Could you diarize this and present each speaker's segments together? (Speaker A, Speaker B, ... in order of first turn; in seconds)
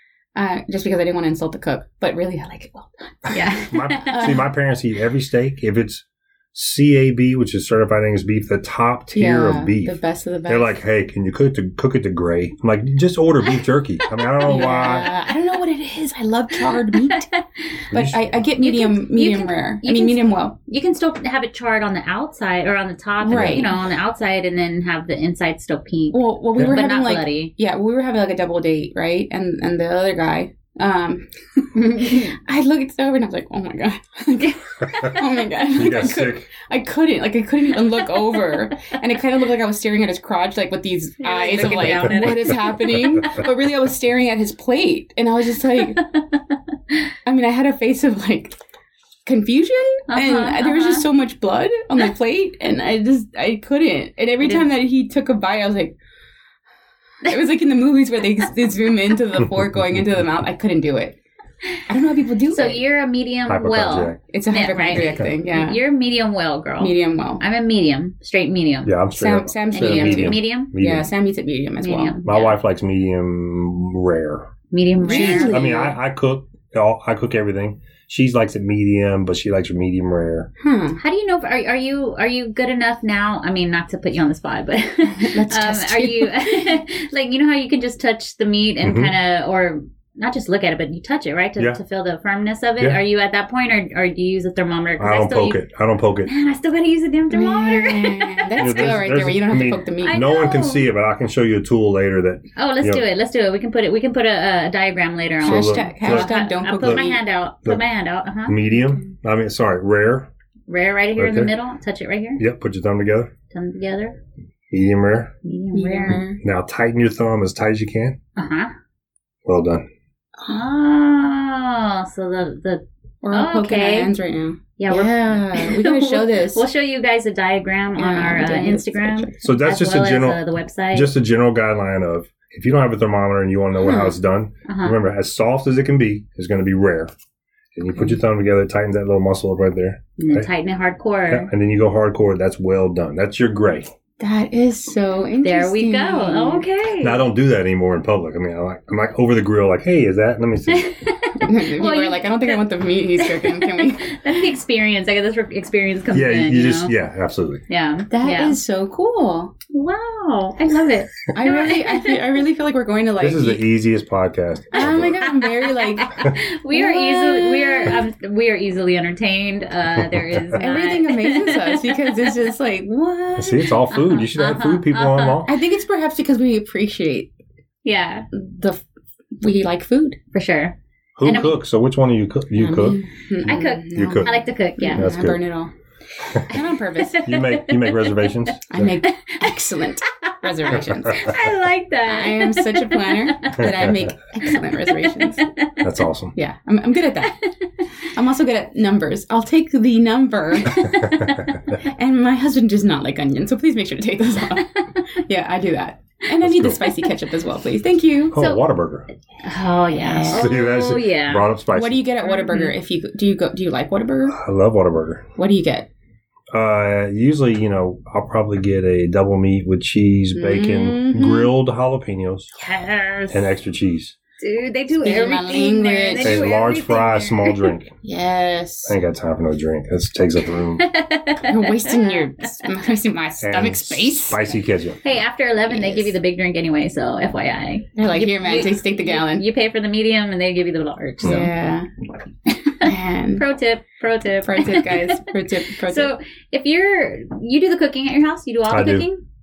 Speaker A: 0.3-4.4, 9.1-10.7, 14.4-17.3, 17.9-20.5, 23.2-23.8, 26.1-46.0, 47.2-48.5, 49.2-56.0, 57.2-61.2, 61.9-62.8, 64.3-65.8, 66.8-67.4, 69.1-72.2, 75.0-76.0, 80.6-81.0, 85.2-86.8, 97.3-100.2, 105.4-107.2, 115.7-116.4, 123.2-126.6, 128.0-129.4, 133.8-134.1, 144.2-146.6, 151.4-154.1, 158.1-159.5, 161.3-163.6, 164.7-168.0, 170.6-173.7, 175.4-177.3, 178.3-178.8, 179.4-180.2, 182.5-185.7, 186.3-187.3, 188.7-191.3, 192.1-195.4, 196.3-197.4, 198.0-201.0, 201.8-208.4, 209.9-210.4, 211.7-214.4, 215.4-215.9, 220.3-221.5, 224.9-226.4, 228.0-228.9, 231.4-234.5, 235.7-236.1, 238.0-239.4, 241.2-241.9, 242.8-243.4, 244.4-246.1
Speaker B: 3.3-4.4, 14.2-15.2, 16.9-17.8, 18.6-27.5, 41.2-43.3, 50.1-51.0, 62.5-68.9, 69.7-70.7, 71.8-72.5, 74.7-75.6, 81.0-95.6, 96.2-98.8, 100.0-100.9, 102.5-108.6, 110.7-112.4, 113.5-114.2, 115.4-116.2, 118.3-118.7, 120.5-124.1, 124.8-131.1, 134.7-134.9, 140.2-141.5, 145.4-147.2, 150.7-152.6, 153.2-156.9, 157.7-158.6, 159.7-162.1, 164.8-172.3, 173.9-175.4, 177.8-178.2, 180.3-181.5, 183.4-185.1, 187.0-188.3, 189.1-189.6, 190.3-193.7, 194.4-195.8, 200.7-201.6, 208.4-208.6, 209.4-211.5, 212.3-212.7, 222.6-223.5, 224.4-227.7, 230.8-232.2, 235.0-241.5, 242.5-249.2
Speaker C: 3.7-15.1, 17.9-18.2, 35.7-36.5, 41.6-42.5, 63.5-64.2, 68.8-71.1, 72.2-74.5, 75.1-80.5, 88.8-89.1, 95.0-96.3, 98.6-103.0, 105.4-107.0, 108.5-110.3, 111.2-111.5, 112.4-113.3, 114.7-115.3, 116.4-118.2, 119.4-119.8, 129.4-130.4, 130.9-137.1, 137.7-140.5, 141.3-143.9, 147.0-150.9, 156.1-157.6, 163.2-165.2, 169.9-170.6, 173.4-175.5, 181.2-183.0, 183.9-184.3, 184.9-185.4, 187.2-189.0, 193.6-194.0, 195.8-196.3, 206.4-206.8, 208.3-209.1, 210.3-212.0, 214.3-215.2, 216.5-222.5, 223.3-224.2, 226.2-227.9, 228.8-230.9, 233.4-235.0, 248.7-249.1